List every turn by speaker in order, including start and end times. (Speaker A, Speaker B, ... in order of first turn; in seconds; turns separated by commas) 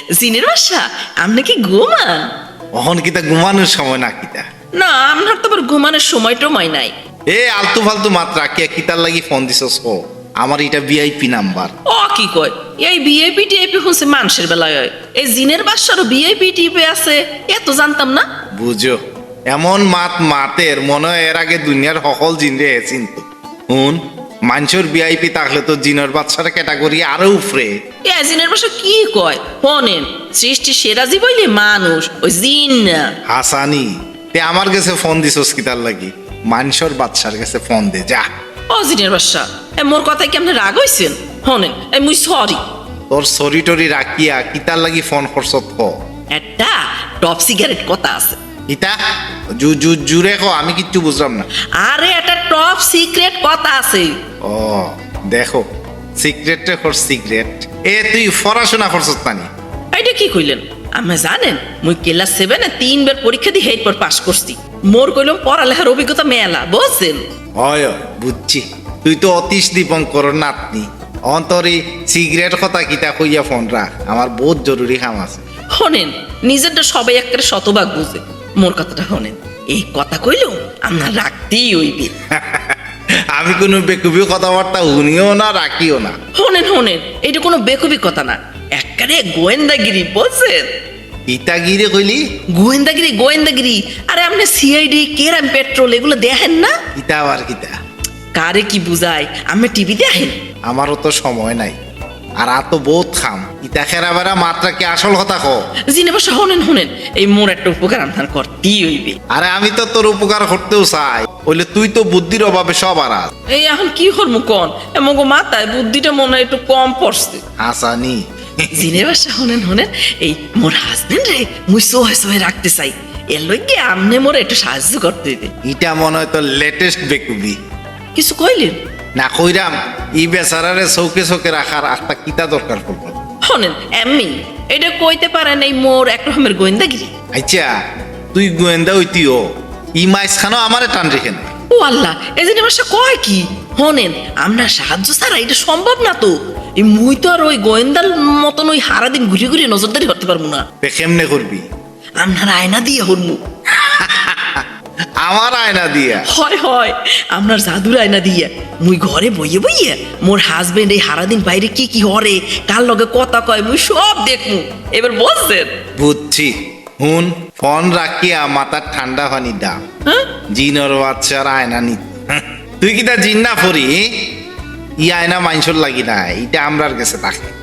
Speaker A: 0.1-2.3, Speaker B: 2.7-4.5, Speaker A: 4.7-6.9, Speaker B: 7.3-11.7, Speaker A: 11.8-18.2, Speaker B: 18.5-27.7, Speaker A: 28.0-33.1, Speaker B: 33.2-38.2, Speaker A: 38.7-42.6, Speaker B: 43.1-45.9, Speaker A: 46.3-48.4, Speaker B: 48.7-49.0, Speaker B: 49.6-51.5, Speaker A: 51.8-54.1, Speaker B: 54.4-55.6, Speaker B: 56.2-59.5, Speaker A: 59.9-67.2, Speaker B: 67.6-75.4, Speaker A: 75.8-82.1, Speaker B: 82.3-82.8, Speaker B: 83.3-86.2, Speaker A: 86.3-90.7, Speaker B: 91.3-92.2, Speaker A: 92.5-96.8, Speaker B: 97.0-97.7, Speaker A: 98.3-100.4, Speaker B: 100.7-101.8, Speaker B: 102.4-105.6, Speaker A: 105.9-109.2, Speaker B: 109.3-113.3, Speaker A: 113.5-117.4, Speaker B: 117.6-119.0, Speaker A: 118.7-125.5, Speaker B: 125.6-127.6, Speaker A: 128.1-128.8, Speaker B: 129.2-133.2, Speaker A: 133.4-137.1, Speaker B: 137.3-137.7, Speaker B: 138.3-141.5, Speaker A: 141.7-150.6, Speaker B: 150.8-151.7, Speaker A: 152.2-153.4, Speaker B: 153.7-154.7, Speaker B: 155.2-156.3, Speaker A: 156.2-165.7, Speaker B: 166.0-169.8, Speaker A: 170.1-170.3, Speaker B: 170.5-174.3, Speaker B: 175.0-177.5